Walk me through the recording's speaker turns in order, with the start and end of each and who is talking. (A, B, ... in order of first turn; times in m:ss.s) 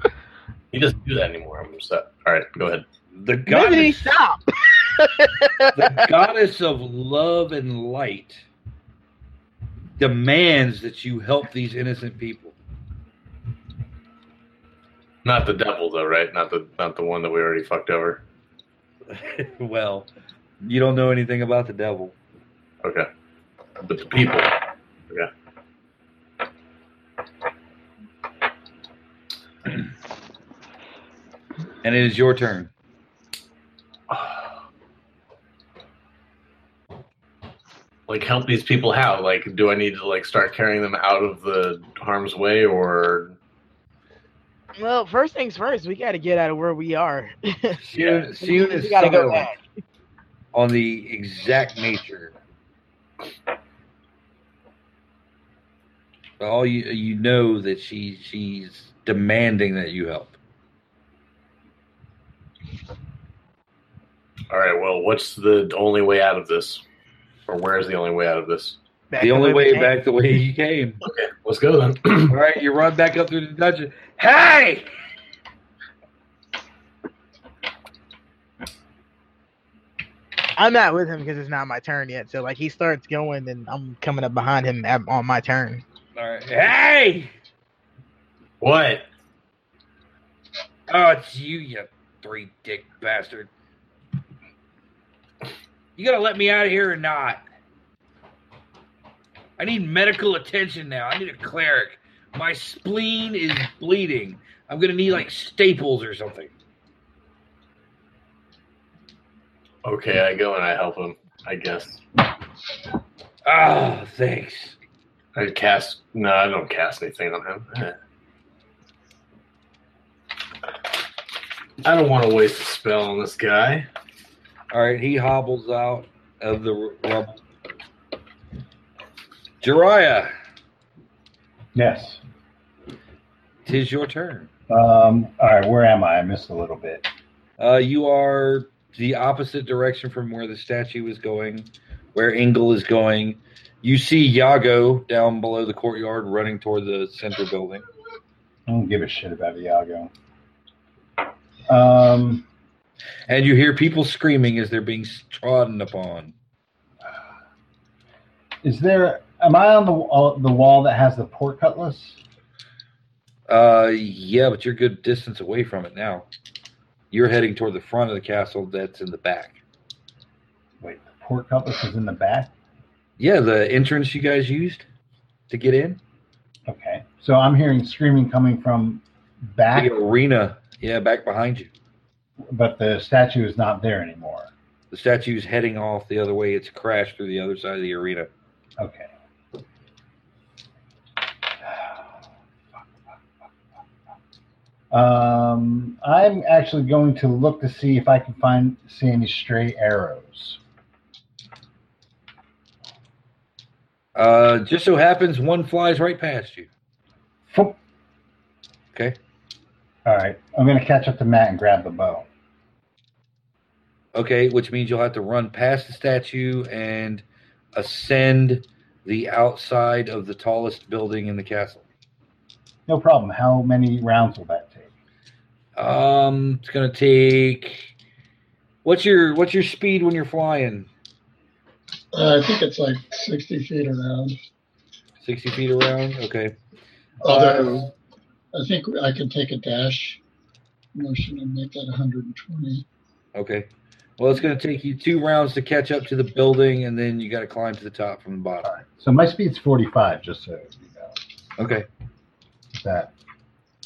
0:00.7-0:02.9 A
0:03.2-0:04.2 B
0:03.5-0:06.0 C
0:05.8-0:08.4 B
0:10.0-0:12.6 B
0:15.2-0:18.2 A
0:19.1-0:20.1 B
0:20.6-0:22.1 B
0:22.8-0:23.1 A
0:23.8-0:24.5 A
0:31.8-0:32.7 B
0:34.1-0:34.6 A
0:38.1-0:43.4 A
0:44.8-0:47.8 C
0:47.8-0:49.5 B
0:48.0-0:48.3 A
0:48.4-0:49.6 C
0:50.5-0:52.4 B
0:56.4-1:00.4 B
1:04.5-1:06.8 A
1:07.5-1:08.8 A
1:09.1-1:09.9 C
1:09.2-1:11.0 B
1:11.0-1:12.4 A
1:12.3-1:14.9 B
1:20.6-1:25.8 C
1:26.2-1:27.3 B
1:28.6-1:29.1 A
1:30.9-1:33.5 B
1:36.0-1:37.4 B
1:39.6-1:46.5 B
1:49.8-1:52.0 A
1:53.4-1:54.8 B
1:55.4-1:58.0 A
2:01.8-2:03.9 A
2:04.7-2:07.4 B
2:09.6-2:10.3 B
2:11.8-2:12.2 D
2:13.6-2:14.5 B
2:14.7-2:17.1 D
2:17.6-2:27.8 B
2:28.7-2:30.1 D
2:31.7-2:32.4 D
2:33.3-2:36.3 B
2:38.6-2:42.2 D
2:43.5-2:46.3 B
2:47.1-2:49.6 B
2:50.8-2:52.5 D
2:53.2-2:54.8 B
2:55.5-2:56.0 B
2:56.7-3:00.0 D
2:59.8-3:01.7 B
3:02.5-3:04.5 D
3:04.9-3:08.3 B
3:08.8-3:09.1 D
3:11.6-3:12.0 D
3:14.9-3:20.6 D
3:24.2-3:26.7 B
3:27.5-3:27.8 D
3:30.0-3:32.3 D
3:34.2-3:37.2 B
3:37.8-3:41.8 B
3:42.9-3:44.9 D
3:45.8-3:47.9 B
3:48.8-3:50.9 B
3:52.1-3:54.4 E
3:55.2-3:56.5 B
3:57.2-3:57.9 E
3:57.3-3:57.8 B
3:58.5-4:00.2 E
4:01.0-4:02.9 E
4:03.4-4:08.7 B
4:08.6-4:11.2 D
4:11.6-4:11.9 B
4:12.7-4:13.1 D